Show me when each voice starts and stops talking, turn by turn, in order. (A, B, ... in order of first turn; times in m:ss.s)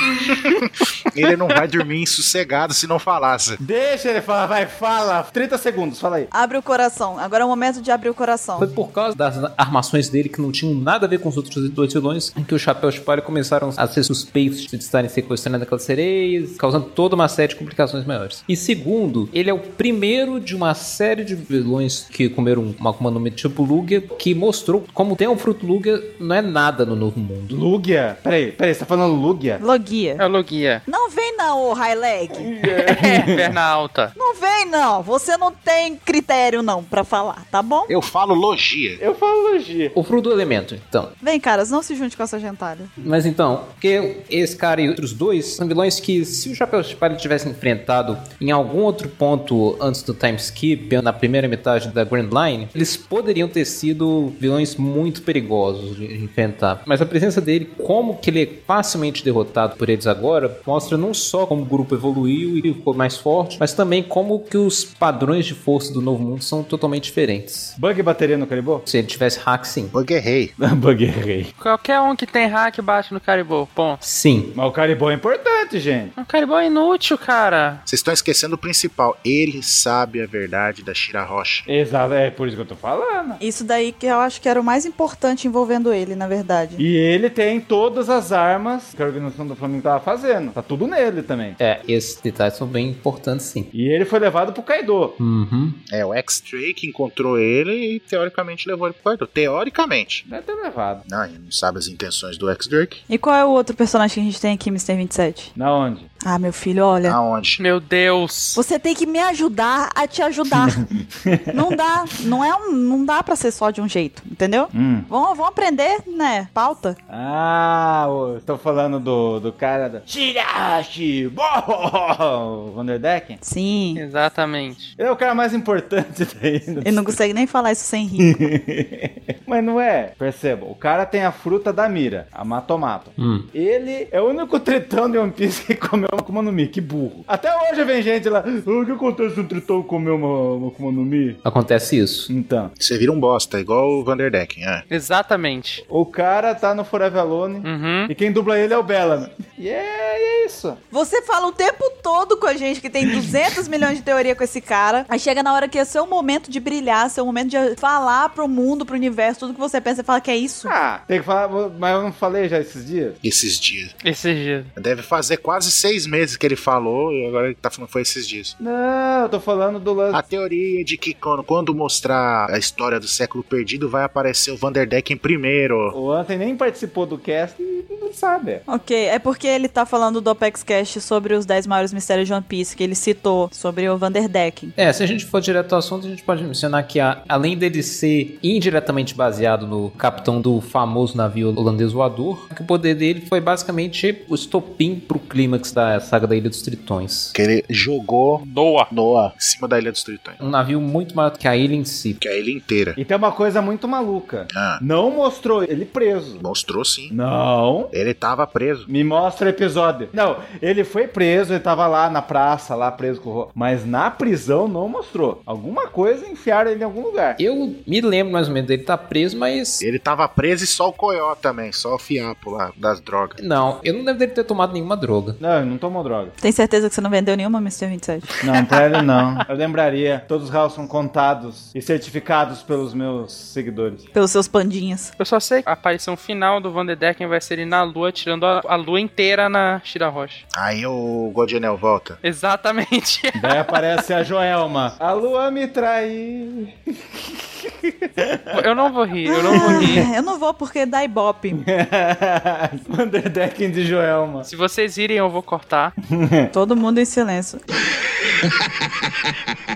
0:00.4-0:03.6 A
0:03.6-0:06.3 B
0:06.3-0:08.7 C
0:08.6-0:27.6 D
0:27.5-0:29.6 B
0:29.6-0:30.2 C
0:30.2-0:30.8 E
0:30.9-0:32.5 C
0:32.3-0:33.5 B
0:32.8-0:34.1 E
0:34.2-0:37.9 C
0:37.9-0:39.0 A
0:39.0-0:40.0 B
0:40.0-0:41.1 D
0:41.2-0:42.9 C
0:43.0-1:07.7 D
1:07.8-1:08.9 B
1:08.9-1:09.9 D
1:09.9-1:10.5 A
1:10.6-1:11.5 B
1:11.6-1:14.0 E
1:14.0-1:14.6 D
1:14.5-1:16.1 B
1:16.2-1:17.8 E
1:17.9-1:21.7 A
1:21.7-1:23.4 B
1:23.4-1:26.8 C
1:26.8-1:31.6 B
1:31.6-1:33.7 D
1:33.7-1:35.2 B
1:35.2-1:35.8 D
1:35.9-1:40.3 A
1:40.3-1:41.1 B
1:41.1-1:43.0 A
1:43.1-1:45.5 C
1:45.6-1:46.1 B
1:46.2-1:47.2 C
1:47.0-1:47.6 A
1:47.6-1:48.6 E
1:48.6-1:50.9 C
1:50.7-1:51.8 B
1:51.5-1:57.0 C
1:54.7-1:55.1 B
1:57.1-2:03.4 B
2:03.4-2:04.0 C
2:04.0-2:04.9 E
2:05.0-2:07.2 B
2:06.8-2:08.4 C
2:08.2-2:21.4 B
2:13.2-2:13.5 D
2:21.4-2:22.3 D
2:22.3-2:22.7 B
2:22.8-2:24.9 A
2:24.9-2:25.8 E
2:25.9-2:30.8 B
2:27.6-2:28.1 E
2:30.9-2:40.7 C
2:40.6-2:43.2 B
2:43.2-2:44.0 A
2:44.0-2:44.7 E
2:44.8-2:48.6 A
2:48.6-2:50.2 B
2:50.1-2:56.0 A
2:55.9-2:58.6 B
2:58.7-3:04.7 C
3:04.8-3:17.3 D
3:17.3-3:20.4 A
3:18.4-3:18.9 E
3:20.4-3:22.2 D
3:22.2-3:23.0 A
3:23.0-3:26.4 B
3:24.5-3:24.8 A
3:26.4-3:27.1 A
3:27.1-3:27.9 B
3:27.9-3:28.9 A
3:28.9-3:37.4 B
3:37.4-3:39.8 D
3:39.8-3:43.4 A
3:43.4-3:45.4 D
3:45.4-3:46.4 B
3:46.4-3:48.3 C
3:48.4-3:54.1 B
3:54.1-3:55.1 C
3:55.2-4:00.4 E
4:00.5-4:02.2 A
4:02.2-4:03.6 E
4:03.4-4:08.7 B
4:08.5-4:10.1 E
4:09.3-4:11.6 C
4:09.4-4:10.1 B
4:11.5-4:14.5 B
4:14.4-4:15.9 E
4:16.1-4:16.5 B
4:16.5-4:17.6 C